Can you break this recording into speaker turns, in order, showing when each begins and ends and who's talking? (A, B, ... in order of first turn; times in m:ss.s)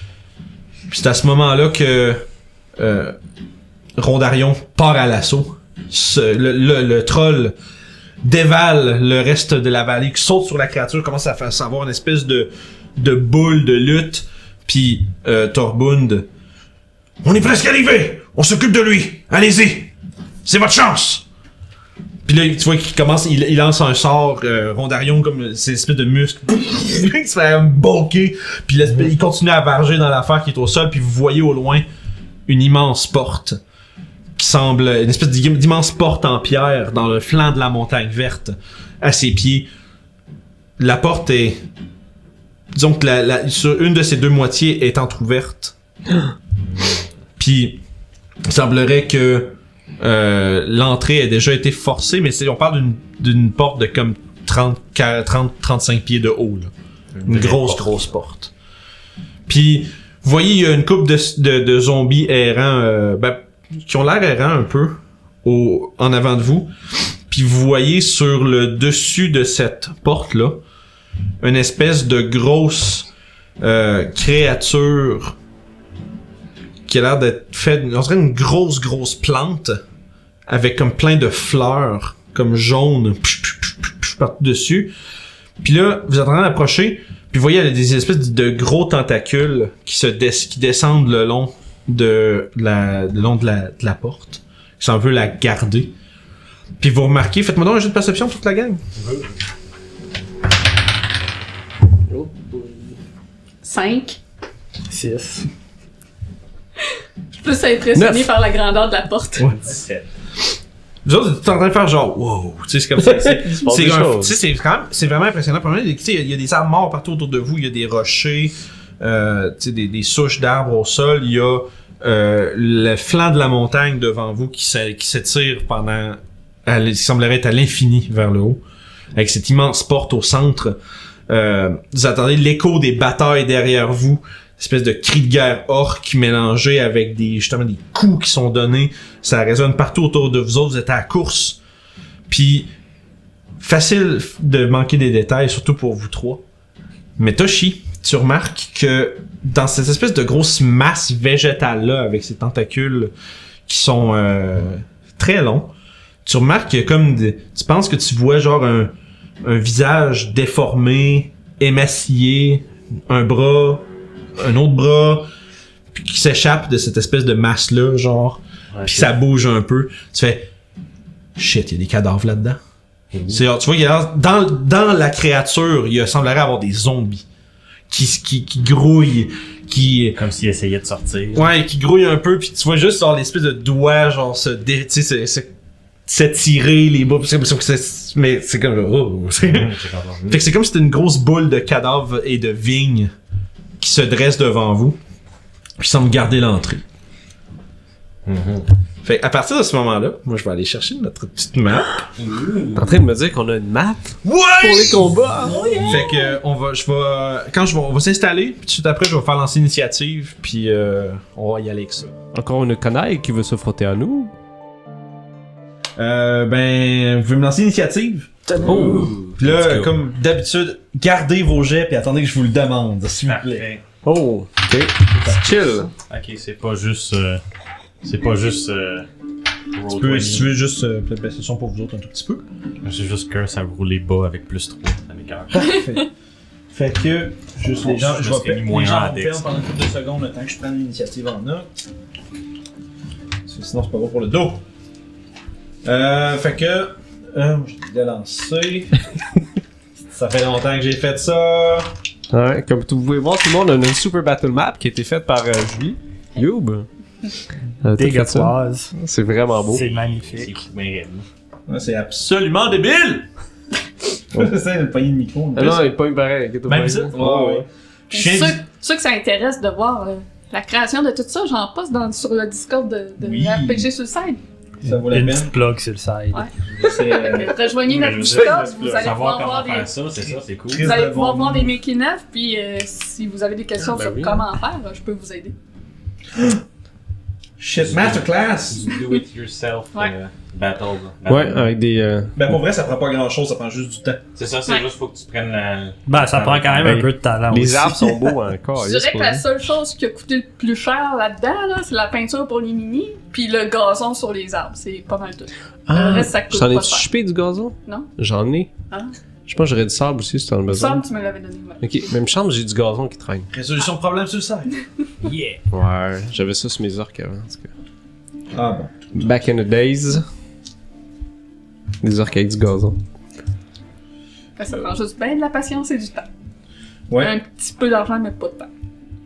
0:00.9-0:02.2 A
0:02.8-0:03.2 A
0:04.0-0:07.5 A
0:08.2-0:16.3 A
0:17.2-0:19.9 A
0:20.4-0:21.2 A
0:22.2-0:31.8 A
0:32.5-0:33.6 A
0:34.4-0:39.7 A
0:40.8-0:41.6 A
0:42.7-0:45.7 A
0:46.7-0:47.0 B
0:47.4-0:47.8 A
0:48.4-0:56.7 A
0:57.2-0:57.9 B
0:57.2-0:58.5 A
0:59.5-1:06.7 A
1:07.3-1:10.6 A
1:11.4-1:13.1 A
1:13.6-1:15.4 A
1:16.8-1:19.8 A
1:20.5-1:24.9 A
1:25.6-1:35.9 A
1:36.8-1:38.8 A
1:39.0-1:39.3 B
1:42.1-1:43.0 C
1:43.6-1:44.2 D
1:44.9-1:45.5 E
1:47.3-1:49.5 D
1:47.9-1:48.3 C
1:49.5-1:50.1 B
1:51.0-2:08.6 A
1:53.0-1:54.3 C
1:53.6-1:54.2 B
2:09.1-2:10.8 A
2:11.3-2:21.6 A
2:22.3-2:22.7 A
2:23.6-2:26.4 A
2:27.2-2:33.1 A
2:33.7-2:35.7 A
2:36.2-2:43.8 A
2:44.4-2:45.3 A
2:45.9-2:50.5 A
2:48.7-2:49.1 B
2:51.4-2:52.6 A
2:53.1-2:53.4 B
2:53.3-2:57.2 A
2:57.9-3:00.2 A
3:00.1-3:01.5 B
3:01.3-3:05.5 A
3:06.1-3:09.7 A
3:09.5-3:10.4 B
3:10.3-3:13.1 A
3:13.8-3:15.0 A
3:15.8-3:16.8 A
3:18.2-3:18.7 B
3:19.0-3:22.1 A
3:22.2-3:22.9 B
3:22.7-3:25.8 C
3:24.2-3:25.1 A
3:25.5-3:26.3 D
3:25.5-3:26.0 B
3:25.8-3:32.1 A
3:32.3-3:34.3 C
3:36.0-3:38.8 A
3:38.6-3:39.9 C
3:38.6-3:39.3 B
3:39.4-3:43.7 A
3:43.3-3:43.8 B
3:44.0-3:45.9 C
3:45.1-3:45.8 A
3:46.1-3:47.4 B
3:48.0-3:49.0 B
3:49.7-3:50.5 B
3:49.9-3:52.4 A
3:52.8-3:55.5 B
3:55.5-3:56.1 A
3:56.7-4:01.7 A
3:57.8-3:59.4 B
4:03.5-4:04.6 A
4:05.8-4:09.0 A
4:10.1-4:11.9 A
4:12.3-4:16.9 C
4:17.8-4:19.8 C
4:17.9-4:18.9 E
4:19.7-4:20.6 E
4:19.7-4:21.2 B
4:21.7-4:23.2 A
4:24.3-4:25.9 A
4:25.5-4:27.6 C
4:26.6-4:28.6 A
4:28.1-4:34.4 D
4:33.2-4:33.9 A
4:34.8-4:35.5 A
4:34.9-4:36.5 E
4:36.3-4:39.9 D
4:36.8-4:37.6 A
4:37.8-4:40.9 B
4:40.7-4:41.8 A
4:40.8-4:45.5 D
4:43.8-4:44.4 C
4:47.6-4:48.9 A
4:47.8-4:51.7 B
4:51.2-4:52.4 C
4:52.3-4:54.2 A
4:54.4-4:57.0 B
4:56.1-4:58.3 E
4:56.8-4:59.4 C
4:58.8-5:07.1 D
5:05.9-5:08.7 C
5:09.5-5:11.0 C
5:10.7-5:12.0 D
5:11.8-5:13.5 C
5:13.5-5:14.7 A
5:15.2-5:15.6 B
5:15.7-5:17.7 C
5:18.5-5:19.0 A
5:19.1-5:20.2 C
5:22.0-5:23.0 C
5:24.6-5:26.3 D
5:27.1-5:27.4 A
5:27.1-5:28.7 D